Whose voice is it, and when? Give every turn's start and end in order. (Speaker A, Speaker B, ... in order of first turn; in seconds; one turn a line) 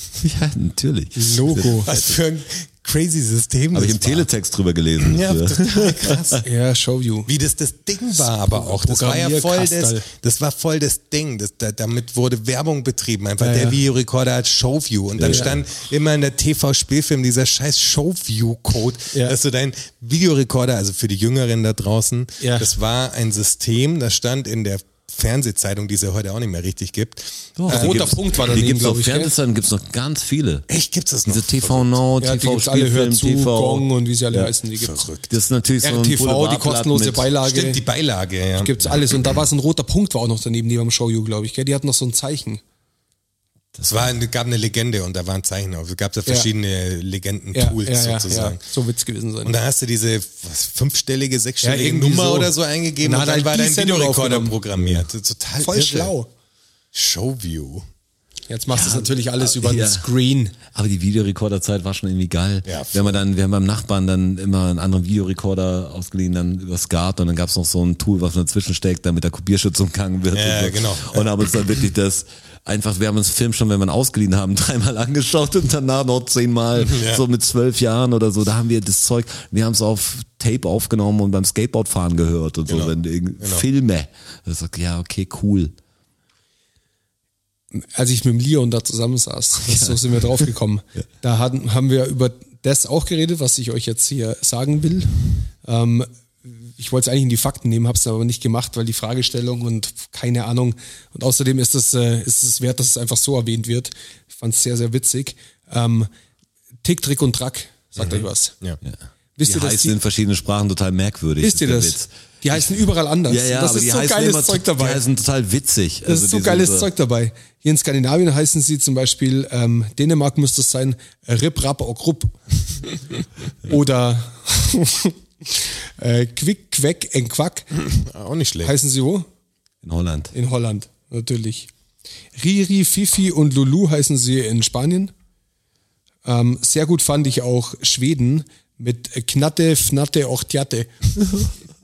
Speaker A: 0.2-2.2
Speaker B: 1.1-1.9
Speaker C: 1.8-4.3
Speaker A: 3.7-6.4
Speaker C: 5.0-6.4
Speaker B: 6.4-7.3
Speaker C: 7.3-28.2
Speaker B: 8.1-10.1
Speaker B: 13.4-13.8
Speaker A: 15.2-15.6
Speaker B: 15.2-15.5
Speaker B: 22.4-22.7
Speaker A: 27.6-30.7
Speaker B: 27.7-29.3
Speaker C: 30.7-32.0
Speaker A: 31.2-34.5
Speaker B: 32.2-35.0
Speaker C: 34.8-35.3
Speaker A: 35.3-37.3
Speaker B: 35.8-37.8
Speaker C: 37.4-38.9
Speaker B: 38.6-42.6
Speaker C: 43.8-48.6
Speaker B: 47.5-49.5
Speaker C: 49.4-56.1
Speaker B: 51.6-54.6
Speaker B: 55.6-56.3
Speaker C: 56.9-57.9
Speaker B: 58.5-60.5
Speaker A: 58.7-60.1
Speaker A: 60.7-85.7
Speaker C: 62.6-63.2
Speaker C: 70.3-71.3
Speaker C: 76.8-77.2
Speaker C: 82.7-83.6
Speaker B: 87.7-106.1
Speaker A: 89.7-90.0
Speaker B: 106.8-108.5
Speaker C: 108.0-108.8
Speaker A: 108.8-112.6
Speaker B: 109.4-110.0
Speaker B: 111.4-115.0
Speaker A: 113.3-116.9
Speaker B: 116.0-122.4
Speaker B: 123.6-127.7
Speaker C: 127.8-128.7
Speaker B: 128.6-129.3
Speaker A: 129.8-130.3
Speaker B: 130.3-131.7
Speaker B: 132.3-135.1
Speaker B: 136.2-141.5